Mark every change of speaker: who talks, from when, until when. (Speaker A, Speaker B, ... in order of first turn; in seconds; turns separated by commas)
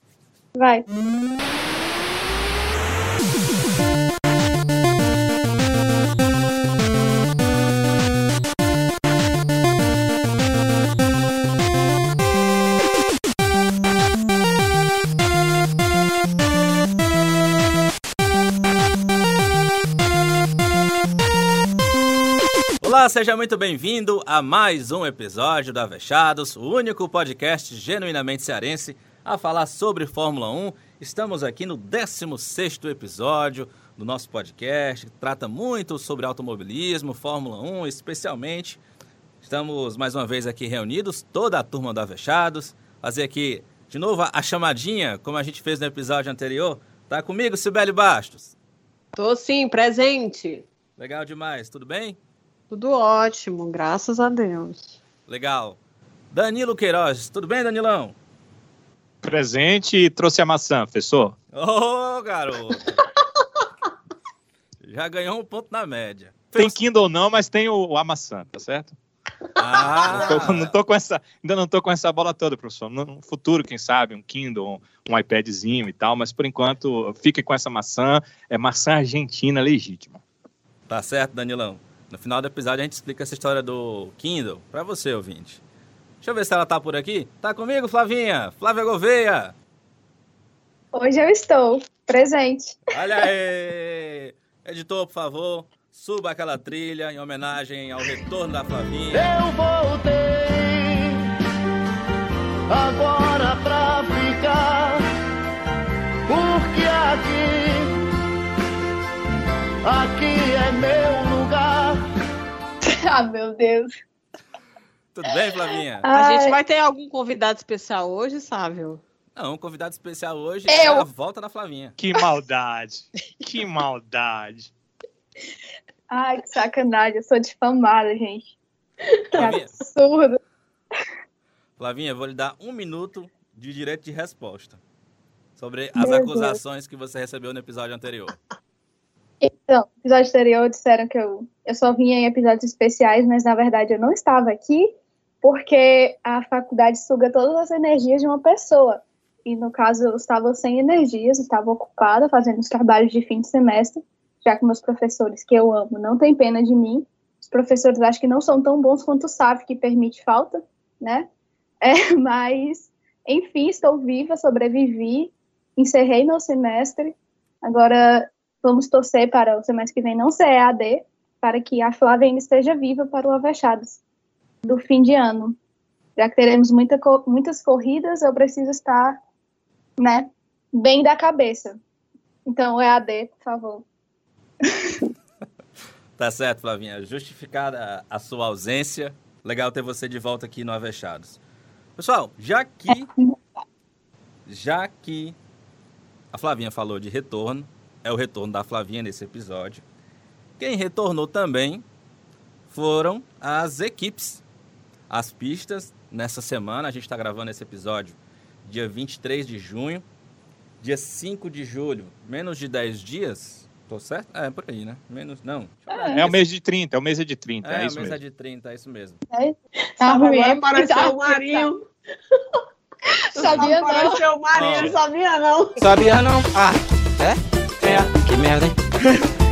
Speaker A: 0.6-0.8, Speaker B: 22.8-38.8, Speaker B: 39.4-48.5, Speaker C: 49.1-50.6, Speaker B: 51.0-52.2, Speaker C: 52.7-54.9, Speaker B: 55.3-55.8, Speaker B: 56.3-58.2, Speaker D: 59.2-61.4, Speaker B: 61.5-63.0, Speaker B: 64.8-66.7, Speaker D: 66.5-68.9, Speaker B: 69.5-70.7, Speaker D: 69.9-80.2, Speaker B: 80.9-85.6, Speaker B: 86.2-89.5, Speaker A: 90.9-92.8, Speaker B: 92.9-99.4, Speaker E: 99.1-101.2, Speaker E: 102.7-105.0, Speaker E: 106.3-108.0, Speaker E: 109.8-112.0, Speaker A: 112.8-113.9, Speaker B: 115.1-116.0, Speaker A: 116.0-116.6, Speaker C: 116.1-119.0, Speaker B: 119.3-121.9, Speaker A: 120.7-121.0, Speaker D: 122.0-124.7, Speaker A: 126.1-128.4, Speaker B: 129.3-129.8, Speaker A: 129.3-130.4, Speaker B: 131.8-134.8, Speaker B: 135.6-138.3, Speaker A: 136.0-136.6, Speaker A: 139.4-161.3, Speaker A: 161.8-174.0, Speaker A: 174.6-175.6, Speaker A: 176.2-179.2, Speaker A: 180.0-181.8, Speaker A: 182.4-183.8, Speaker A: 184.7-185.1, Speaker B: 186.2-191.4, Speaker B: 192.0-193.1, Speaker A: 192.9-193.3, Speaker B: 194.4-195.4, Speaker B: 196.3-199.8, Speaker B: 200.6-201.8, Speaker B: 202.7-204.4, Speaker B: 205.1-210.0, Speaker B: 210.8-216.4, Speaker A: 215.9-216.3, Speaker D: 216.1-218.2, Speaker B: 217.6-219.2, Speaker A: 219.3-221.7, Speaker C: 220.0-221.8, Speaker C: 223.3-225.8, Speaker A: 223.3-224.2, Speaker B: 224.5-225.0, Speaker F: 225.8-229.1